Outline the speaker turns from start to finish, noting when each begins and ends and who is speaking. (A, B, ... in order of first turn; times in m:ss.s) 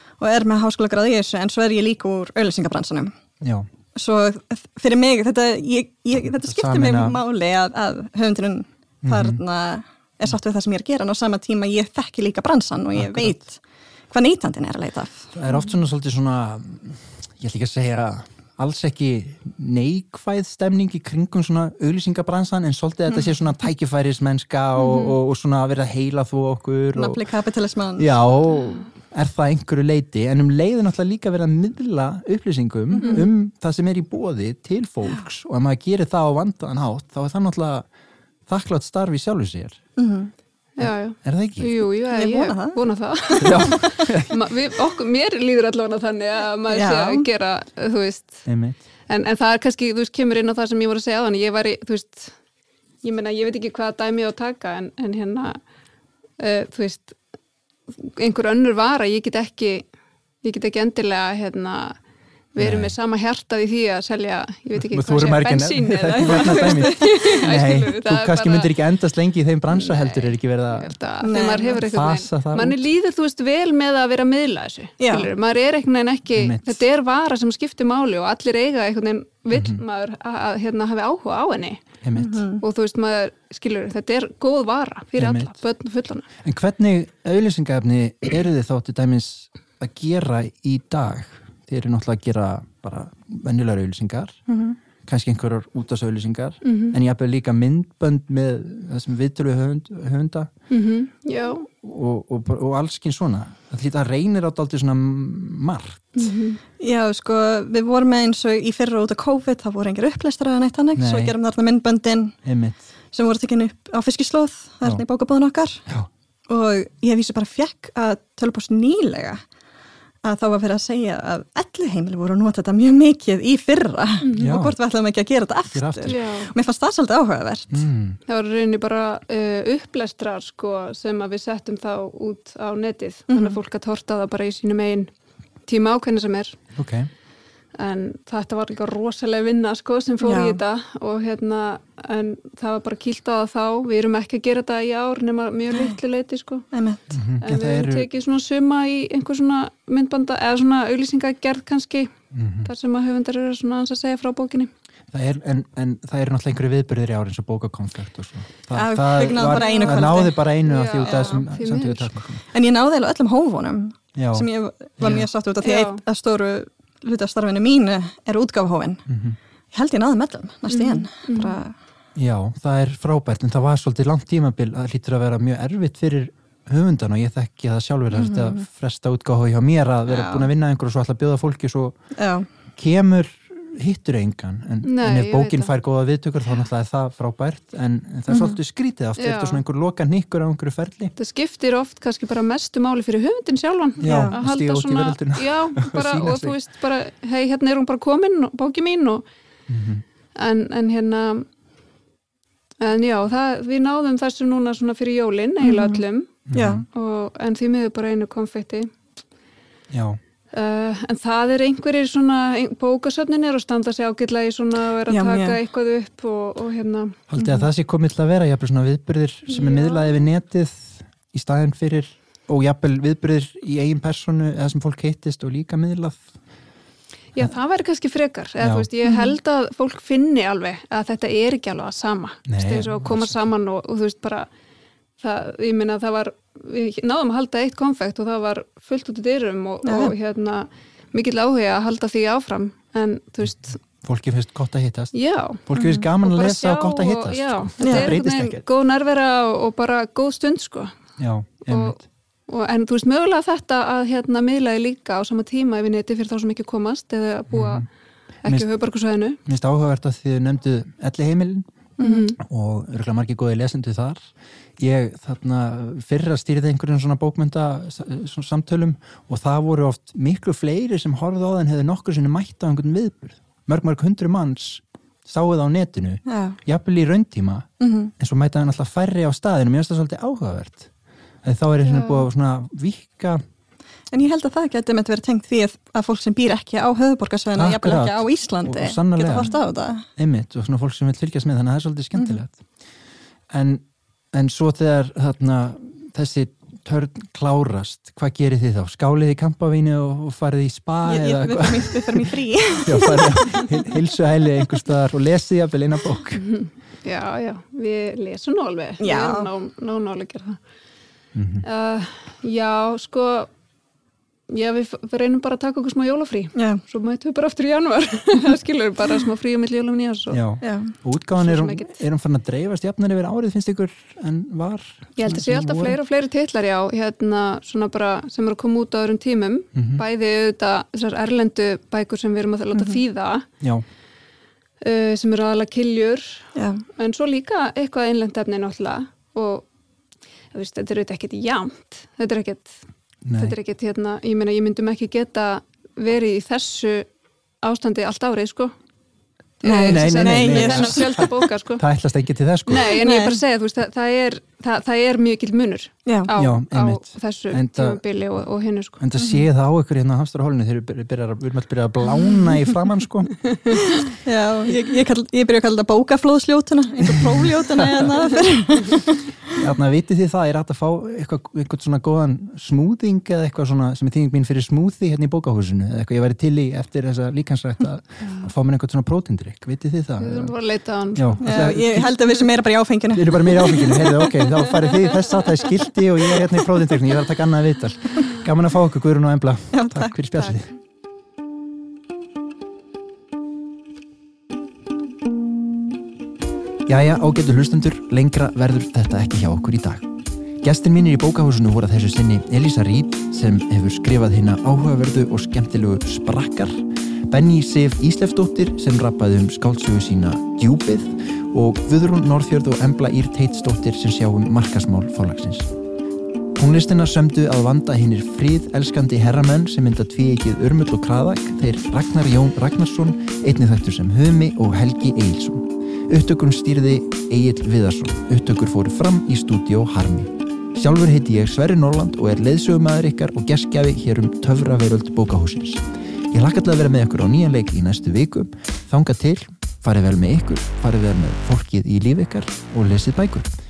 0:00.2-0:03.1 A
0:03.4-0:03.7 B
0:03.9-0:15.3 A
0:06.2-0:07.2 B
0:09.0-0:09.4 B
0:12.9-0:13.4 B
0:15.3-0:27.3 B
0:24.9-0:25.1 C
0:27.0-0:28.1 A
0:28.0-0:37.9 B
0:33.0-0:33.2 C
0:33.0-0:33.3 A
0:38.5-0:39.8 B
0:40.0-0:40.3 A
0:40.8-0:48.5 C
0:40.8-0:41.7 B
0:42.1-0:42.8 A
0:43.4-0:44.3 B
0:46.7-0:47.2 A
0:48.4-0:48.8 B
0:49.0-0:52.4 C
0:53.0-0:55.6 C
0:56.4-0:57.2 C
0:58.0-0:59.9 C
1:00.4-1:02.0 C
1:02.5-1:08.7 C
1:02.6-1:02.9 B
1:04.8-1:10.9 B
1:06.2-1:07.0 A
1:09.7-1:21.8 C
1:11.2-1:11.8 A
1:11.8-1:12.8 B
1:15.0-1:15.3 A
1:16.4-1:16.8 B
1:19.5-1:19.8 B
1:22.0-1:22.4 B
1:22.2-1:22.6 A
1:22.6-1:26.2 C
1:25.2-1:25.5 B
1:26.4-1:34.4 B
1:34.5-1:34.8 A
1:35.0-1:40.5 B
1:36.6-1:36.9 C
1:40.7-1:41.7 C
1:41.8-1:46.1 B
1:46.1-1:46.6 C
1:46.8-1:52.4 A
1:50.9-1:51.4 B
1:52.4-1:52.9 B
1:53.1-1:55.8 A
1:56.5-1:59.4 A
2:00.2-2:07.9 A
2:04.2-2:04.5 C
2:04.4-2:04.8 B
2:05.7-2:06.2 B
2:06.1-2:06.5 C
2:07.7-2:08.2 B
2:08.3-2:15.1 C
2:13.3-2:13.6 A
2:15.6-2:16.6 C
2:16.7-2:17.1 B
2:17.7-2:26.7 C
2:20.2-2:20.6 A
2:26.7-2:27.0 A
2:27.1-2:28.1 B
2:27.4-2:32.1 C
2:32.3-2:32.7 B
2:32.6-2:34.7 C
2:35.1-2:42.4 B
2:38.7-2:41.3 A
2:39.3-2:42.2 C
2:42.5-2:49.0 A
2:44.1-2:44.5 B
2:45.0-2:45.3 B
2:45.6-2:46.0 C
2:49.1-2:49.4 B
2:49.7-2:51.7 A
2:50.7-2:51.6 C
2:52.2-3:02.1 B
2:58.1-2:58.6 A
3:00.1-3:00.5 A
3:02.1-3:02.5 A
3:02.8-3:11.1 B
3:04.8-3:05.7 C
3:08.3-3:08.6 A
3:09.2-3:09.6 C
3:11.2-3:19.2 C
3:14.0-3:16.6 B
3:14.1-3:14.4 A
3:19.7-3:20.0 B
3:20.3-3:21.5 C
3:22.8-3:28.9 C
3:25.6-3:26.0 A
3:26.4-3:26.8 B
3:26.5-3:26.8 A
3:29.9-3:30.2 B
3:30.5-3:37.3 C
3:35.1-3:35.6 A
3:37.3-3:46.3 B
3:37.4-3:37.7 A
3:39.5-3:40.2 C
3:47.3-3:54.5 C
3:48.6-3:48.9 B
3:49.0-3:49.3 A
3:52.5-3:53.4 B
3:55.2-4:03.8 C
3:59.8-4:00.1 A
4:03.4-4:08.6 B
4:05.1-4:11.0 C
4:05.7-4:06.1 A
4:07.8-4:08.1 A
4:11.2-4:12.0 B
4:11.6-4:17.9 C
4:17.5-4:17.9 B
4:18.4-4:19.4 C
4:19.4-4:21.6 B
4:22.0-4:22.3 A
4:22.0-4:22.4 C
4:22.4-4:40.9 B
4:36.3-4:36.6 A
4:37.8-4:38.1 A
4:41.4-4:43.4 B
4:42.0-4:42.2 C
4:44.1-4:50.0 A
4:47.5-4:49.6 B
4:50.1-4:52.6 B
4:52.2-4:52.4 A
4:53.5-5:06.4 B
5:01.0-5:03.6 A
5:06.4-5:10.6 C
5:09.0-5:09.5 A
5:11.3-5:11.6 B
5:11.6-5:13.5 C
5:14.5-5:20.4 C
5:16.6-5:16.8 A
5:20.3-5:26.0 B
5:20.6-5:20.9 A
5:21.4-5:21.9 C
5:25.2-5:33.4 C
5:29.7-5:30.0 B
5:32.7-5:33.0 A
5:34.8-5:39.7 C
5:36.6-5:36.8 A
5:40.5-5:42.8 C
5:43.2-5:43.6 B
5:43.3-5:47.1 C
5:47.6-5:48.7 C
5:49.6-5:51.8 C
5:49.6-5:51.2 A
5:49.8-5:53.0 B
5:52.7-5:59.0 C
5:53.0-5:53.4 A
5:56.0-5:56.3 A
5:56.4-5:58.0 B
5:59.0-6:03.4 B
6:03.9-6:09.3 A
6:07.1-6:08.0 B
6:09.5-6:20.5 B
6:20.2-6:21.8 C
6:21.1-6:22.1 B
6:21.4-6:25.3 A
6:23.1-6:30.7 B
6:29.7-6:30.6 A
6:36.8-6:40.1 B
6:40.6-6:55.7 B
6:56.6-7:23.5 B